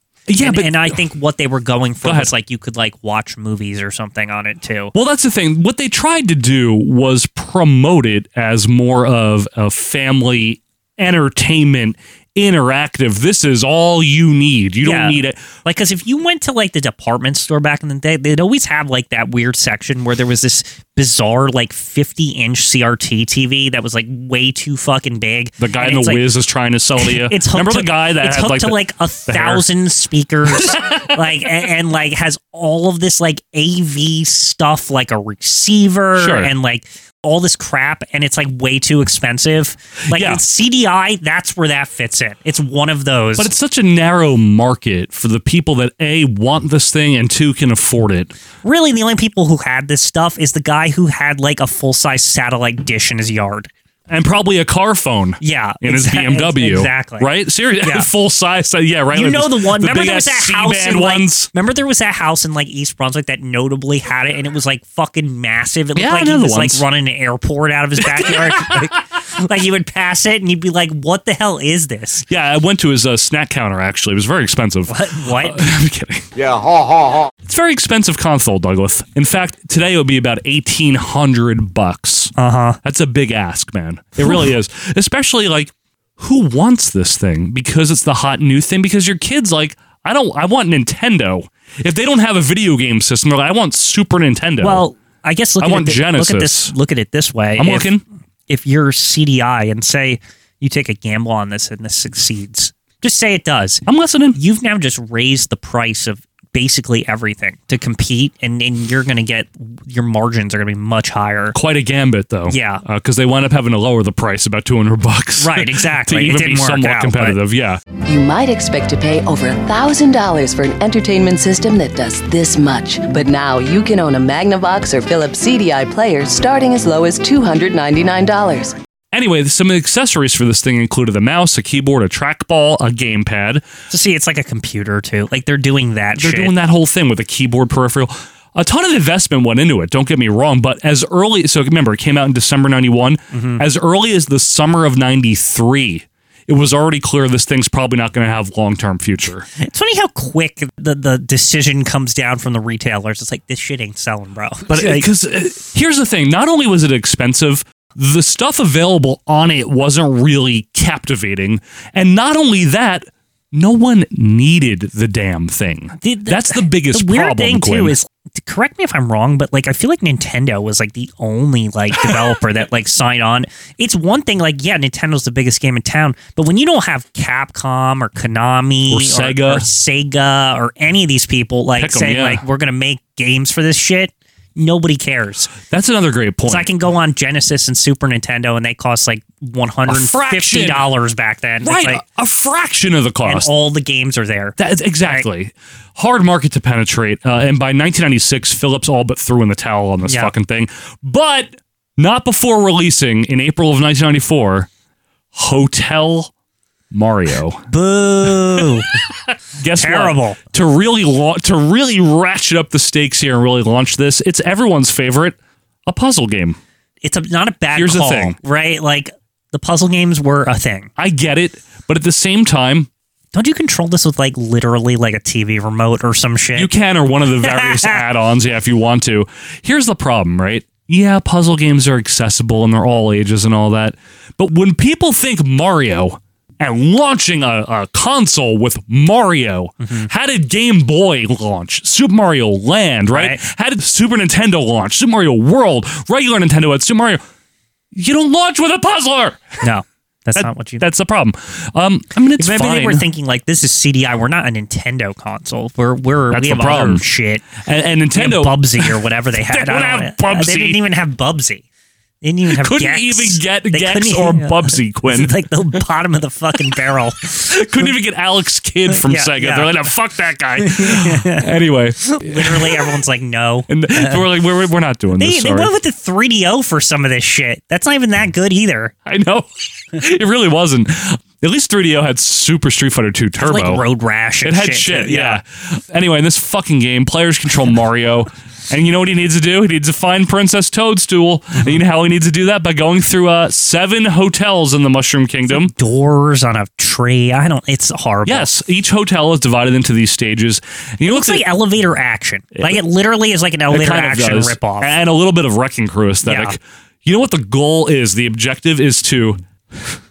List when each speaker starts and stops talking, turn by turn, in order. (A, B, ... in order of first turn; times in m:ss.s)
0:00.3-0:01.0 A
0:00.4-0:04.9 B
0:02.0-0:02.3 A
0:04.9-0:15.5 A
0:14.8-0:26.2 B
0:25.6-0:29.6 A
0:27.0-0:43.5 B
0:30.5-0:31.1 A
0:36.2-0:36.5 A
0:40.1-0:40.4 A
0:43.4-0:48.3 A
0:48.6-0:53.7 B
0:54.1-1:01.5 A
0:55.4-0:57.3 B
0:57.8-0:58.1 B
0:59.1-1:12.3 B
1:06.0-1:06.8 A
1:08.0-1:08.9 A
1:12.3-1:16.2 A
1:14.9-1:15.7 B
1:17.4-1:22.3 A
1:22.4-1:22.8 B
1:22.8-1:34.8 A
1:24.2-1:24.5 B
1:34.6-1:37.9 B
1:35.6-1:36.7 A
1:37.6-1:38.0 A
1:38.5-1:43.8 B
1:43.8-1:44.4 A
1:44.3-1:51.6 B
1:51.5-1:57.8 A
1:52.5-1:52.8 B
1:55.4-1:57.4 B
1:58.0-2:08.7 C
2:09.1-2:13.6 A
2:13.9-2:16.5 B
2:16.2-2:29.5 A
2:23.3-2:23.6 B
2:29.6-2:35.1 B
2:34.7-2:48.0 A
2:46.0-3:05.5 B
2:58.9-2:59.6 A
3:01.8-3:02.4 A
3:05.7-3:06.7 A
3:06.5-3:12.0 B
3:09.9-3:10.8 A
3:11.6-3:13.5 A
3:13.2-3:15.3 B
3:14.6-3:24.7 A
3:25.3-3:26.3 A
3:26.9-3:27.6 A
3:27.7-3:28.9 B
3:29.6-3:36.6 A
3:29.8-3:30.4 B
3:37.0-3:40.9 B
3:37.7-3:38.4 A
3:41.0-3:42.9 A
3:43.3-3:46.7 B
3:46.6-4:07.2 A
3:47.4-3:48.0 B
3:59.8-4:00.1 B
4:03.1-4:03.4 B
4:07.9-4:09.6 A
4:09.6-4:10.8 B
4:10.4-4:13.0 A
4:12.4-4:17.5 B
4:16.3-4:17.0 A
4:17.6-4:20.8 A
4:18.1-4:21.6 B
4:22.2-4:27.9 B
4:22.5-4:25.3 A
4:27.5-4:33.0 A
4:28.9-4:29.7 B
4:30.6-4:31.5 B
4:32.0-4:34.2 B
4:33.7-4:35.7 A
4:35.2-4:38.9 B
4:39.1-4:43.8 A
4:43.4-4:45.4 B
4:44.4-4:55.7 A
4:55.5-4:58.5 B
4:58.2-5:01.4 A
5:01.1-5:04.9 B
5:03.7-5:09.4 A
5:06.2-5:06.6 B